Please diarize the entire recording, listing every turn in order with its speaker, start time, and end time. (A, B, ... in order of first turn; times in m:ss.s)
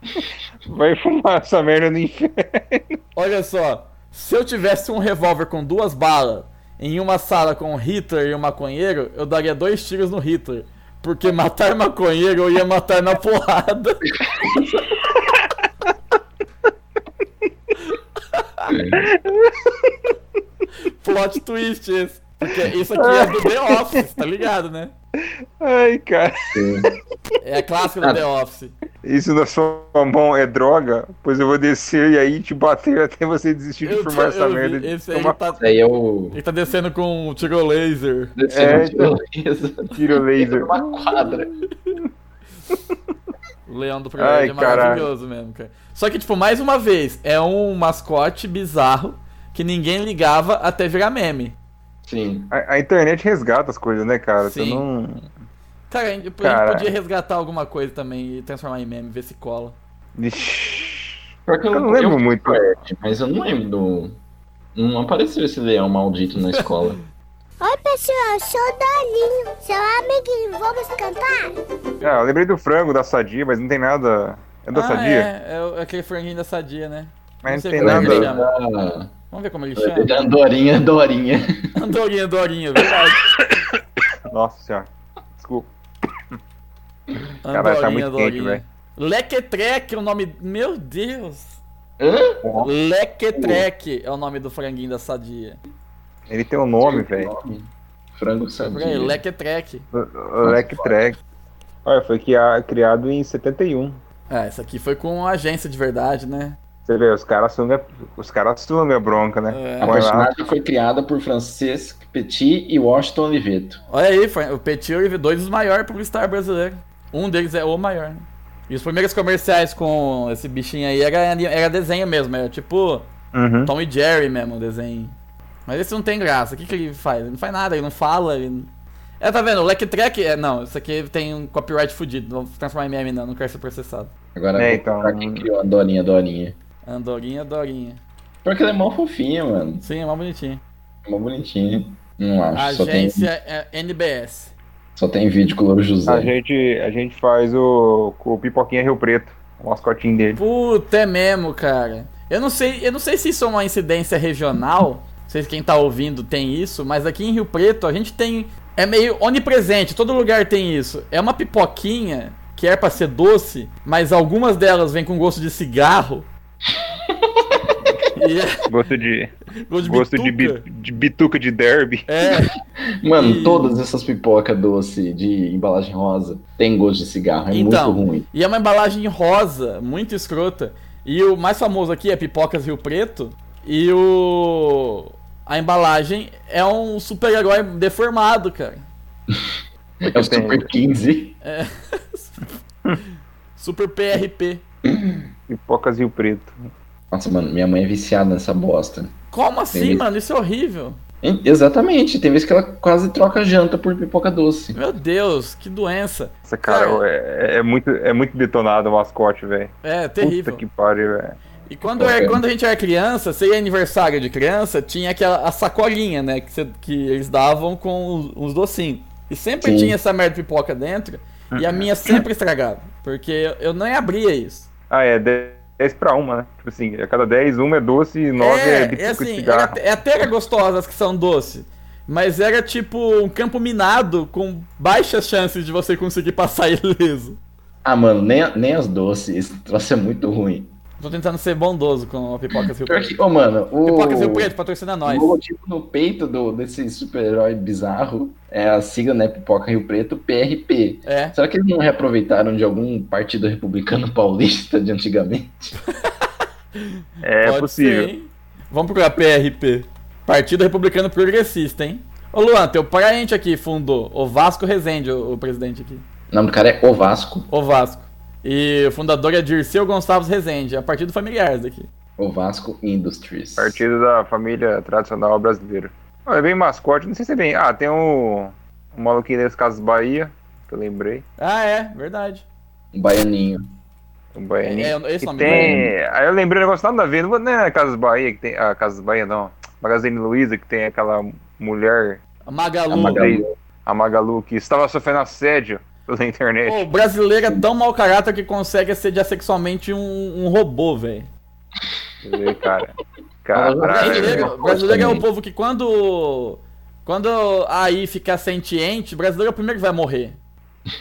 0:00.2-0:03.0 A
0:03.1-0:14.0 B
0:15.1-0:15.4 A
0:18.3-0:18.7 B
0:18.7-0:19.0 C
0:19.0-0:19.9 A
0:20.8-0:24.9 B
0:23.0-0:24.0 A
0:25.6-0:26.7 A
0:26.5-0:26.9 C
0:27.4-0:28.7 B
0:29.0-0:35.4 A
0:33.8-0:35.6 B
0:35.6-0:36.4 C
0:36.3-0:38.3 B
0:38.4-0:41.5 C
0:38.5-0:39.1 A
0:39.9-0:42.0 A
0:43.7-0:51.6 B
0:44.2-0:45.1 A
0:52.0-0:52.5 C
0:52.5-0:55.3 A
0:54.4-0:54.8 B
0:55.9-0:59.7 B
0:56.4-0:56.9 A
1:00.2-1:02.7 A
1:01.4-1:04.2 C
1:04.7-1:07.0 C
1:07.6-1:11.5 D
1:12.0-1:15.3 A
1:14.7-1:18.5 B
1:17.4-1:18.3 A
1:17.8-1:19.1 C
1:19.3-1:20.3 B
1:19.8-1:21.6 C
1:21.7-1:23.2 B
1:24.3-1:25.7 A
1:27.4-1:31.6 B
1:27.5-1:28.6 A
1:32.0-1:32.5 C
1:32.4-1:32.7 A
1:32.6-1:35.6 B
1:33.3-1:33.6 C
1:36.3-1:37.3 A
1:36.8-1:39.2 C
1:38.6-1:39.8 B
1:39.9-1:41.2 A
1:40.4-1:41.1 C
1:41.8-1:44.0 A
1:44.3-1:46.6 B
1:46.8-1:50.4 A
1:49.5-1:50.0 B
1:49.8-1:53.8 C
1:53.9-2:03.1 B
2:03.3-2:03.7 A
2:03.6-2:05.1 B
2:05.7-2:14.1 B
2:14.3-2:16.5 C
2:14.5-2:15.5 A
2:16.8-2:18.0 B
2:18.4-2:19.8 C
2:19.8-2:20.6 B
2:21.0-2:23.3 C
2:22.5-2:24.5 B
2:25.0-2:26.3 C
2:26.0-2:30.4 A
2:30.4-2:46.3 B
2:47.1-2:47.4 C
2:48.1-2:48.7 B
2:48.7-2:52.0 A
2:49.7-2:50.6 B
2:52.1-2:52.5 B
2:53.0-2:58.2 C
2:53.2-2:53.8 B
2:57.5-3:08.8 B
3:10.0-3:11.4 C
3:10.1-3:10.7 A
3:11.4-3:12.6 B
3:13.6-3:14.6 B
3:15.5-3:16.7 A
3:17.1-3:19.1 C
3:19.3-3:21.0 B
3:19.7-3:20.0 C
3:21.2-3:24.8 C
3:24.7-3:27.0 B
3:26.5-3:31.4 A
3:29.8-3:30.6 B
3:31.7-3:44.7 B
3:32.0-3:32.4 C
3:39.6-3:40.0 C
3:41.5-3:41.9 A
3:44.9-3:49.8 A
3:48.4-3:57.4 B
3:57.8-4:00.7 C
4:01.0-4:03.1 B
4:02.9-4:04.5 C
4:03.8-4:05.4 B
4:05.0-4:15.8 C
4:11.0-4:11.3 B
4:16.0-4:26.0 B
4:17.2-4:18.1 A
4:26.3-4:27.5 C
4:27.5-4:31.9 B
4:32.2-4:33.8 C
4:33.6-4:41.2 A
4:41.4-4:42.4 B
4:42.9-4:43.7 C
4:44.3-4:52.2 A
4:44.6-4:45.8 B
4:45.4-4:45.9 C
4:52.4-4:53.3 B
4:52.9-4:53.5 C
4:52.9-4:56.9 A
4:56.6-5:01.3 B
5:02.2-5:04.5 A
5:03.5-5:05.2 C
5:03.9-5:10.4 B